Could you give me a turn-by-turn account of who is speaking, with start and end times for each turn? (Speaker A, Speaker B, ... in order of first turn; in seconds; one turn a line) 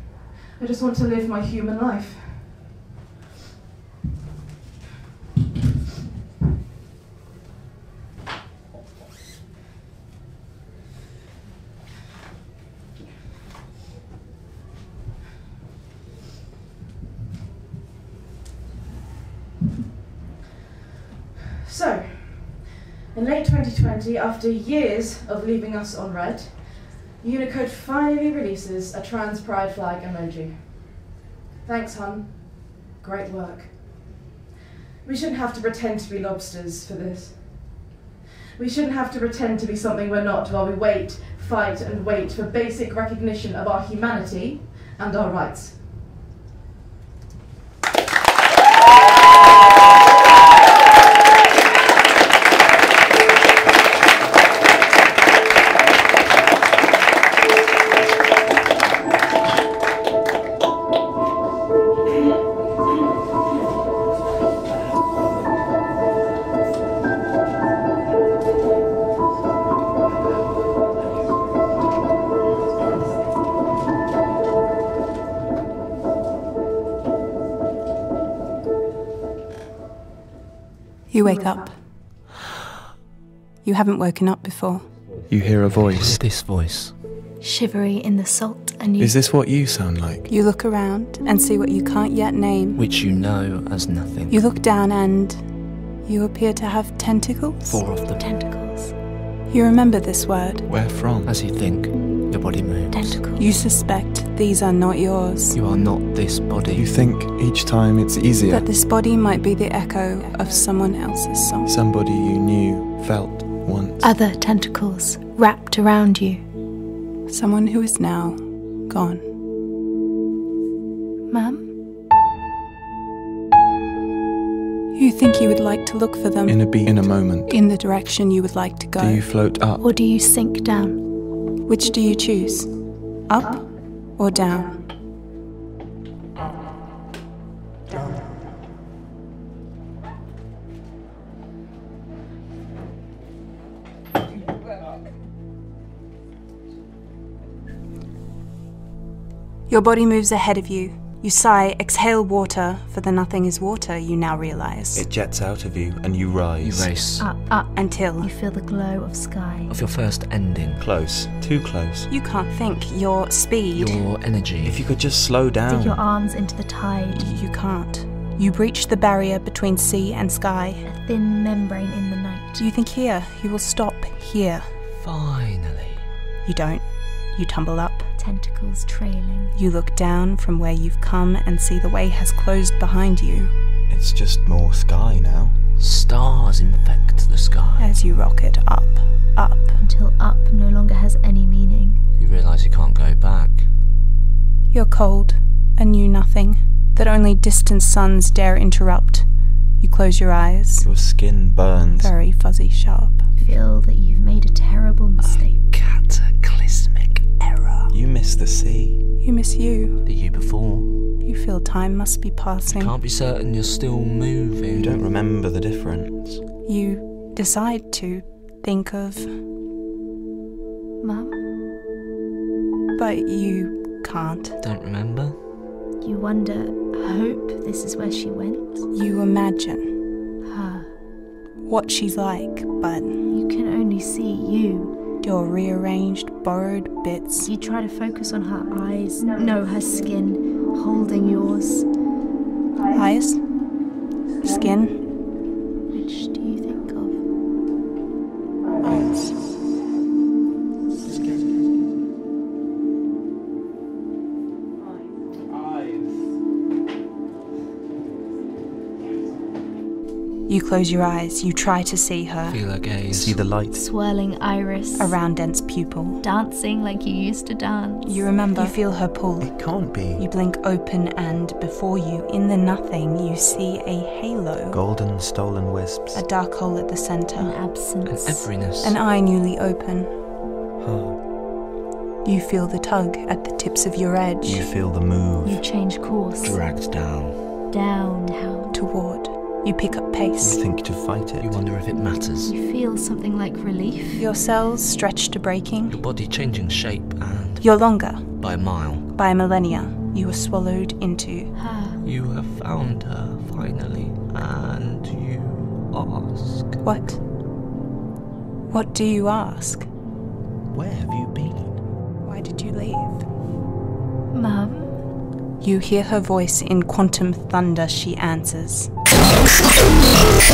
Speaker A: 0.6-2.6
Speaker A: 21.6-31.1
Speaker A: 31.6-34.1
Speaker A: 35.0-37.9
Speaker A: 38.6-45.8
Speaker B: 81.1-81.8
Speaker C: 81.2-81.8
Speaker B: 83.6-85.2
Speaker D: 85.2-86.3
Speaker E: 85.7-87.0
Speaker C: 87.4-89.2
Speaker D: 89.0-90.3
Speaker B: 90.3-92.8
Speaker E: 92.8-94.4
Speaker B: 94.3-95.5
Speaker B: 96.0-97.8
Speaker E: 97.6-98.2
Speaker C: 98.2-99.0
Speaker B: 99.5-100.7
Speaker D: 100.7-101.3
Speaker E: 101.2-103.2
Speaker C: 102.9-103.5
Speaker B: 103.4-105.6
Speaker E: 105.5-107.0
Speaker D: 106.7-108.7
Speaker B: 108.5-111.7
Speaker A: 110.3-110.6
Speaker D: 111.7-114.0
Speaker C: 114.0-116.4
Speaker B: 117.3-119.2
Speaker C: 121.3-121.7
Speaker B: 124.9-129.2
Speaker D: 126.5-127.5
Speaker D: 129.0-129.8
Speaker C: 129.8-131.0
Speaker B: 131.7-134.8
Speaker B: 149.7-155.0
Speaker D: 154.9-157.1
Speaker E: 156.6-157.3
Speaker C: 157.2-159.7
Speaker B: 157.7-158.3
Speaker E: 159.7-160.9
Speaker D: 160.8-162.1
Speaker B: 162.1-164.0
Speaker E: 163.8-164.8
Speaker D: 164.6-166.1
Speaker C: 165.7-167.3
Speaker B: 167.1-170.8
Speaker C: 170.8-172.6
Speaker B: 172.6-174.7
Speaker E: 174.9-176.1
Speaker B: 176.5-178.1
Speaker C: 178.2-179.5
Speaker B: 179.6-183.5
Speaker D: 183.9-185.6
Speaker E: 185.8-187.9
Speaker B: 187.8-189.8
Speaker C: 189.8-192.0
Speaker E: 192.2-193.7
Speaker B: 194.7-200.9
Speaker D: 200.8-202.1
Speaker B: 202.0-203.3
Speaker C: 203.3-205.7
Speaker E: 205.2-207.3
Speaker C: 207.4-207.8
Speaker D: 207.9-209.0
Speaker B: 209.2-210.0
Speaker E: 210.0-211.1
Speaker B: 211.2-212.9
Speaker E: 212.7-215.1
Speaker D: 214.8-216.4
Speaker B: 216.7-219.4
Speaker C: 221.0-221.4
Speaker B: 223.0-224.6
Speaker E: 224.6-225.4
Speaker C: 226.0-228.9
Speaker B: 228.9-229.9
Speaker C: 230.4-230.9
Speaker B: 231.7-233.2
Speaker C: 233.3-234.9
Speaker B: 235.2-237.5
Speaker C: 237.4-241.9
Speaker B: 242.9-243.5
Speaker B: 244.4-245.0
Speaker C: 245.9-247.2
Speaker B: 260.5-262.6
Speaker E: 262.4-263.4
Speaker D: 263.1-263.8
Speaker C: 263.7-265.2
Speaker B: 265.0-266.2
Speaker C: 266.2-268.7
Speaker B: 268.1-274.8
Speaker D: 269.4-270.3
Speaker D: 274.7-276.2
Speaker B: 276.1-277.6
Speaker C: 277.4-278.7
Speaker E: 278.0-279.0
Speaker B: 278.8-280.1
Speaker D: 280.8-281.2
Speaker B: 282.2-284.7
Speaker D: 284.4-285.6
Speaker C: 285.4-286.6
Speaker E: 286.4-287.5
Speaker C: 287.7-288.8
Speaker B: 288.7-290.6
Speaker D: 290.4-291.7
Speaker E: 291.4-292.5
Speaker C: 292.4-294.2
Speaker B: 294.1-296.0
Speaker E: 295.9-299.1
Speaker B: 297.6-298.5
Speaker B: 299.1-301.5
Speaker C: 301.5-302.0
Speaker E: 302.0-306.9
Speaker B: 306.8-307.2
Speaker B: 308.7-309.9
Speaker D: 310.7-311.8
Speaker B: 312.2-313.2
Speaker C: 314.3-315.0
Speaker B: 315.6-318.9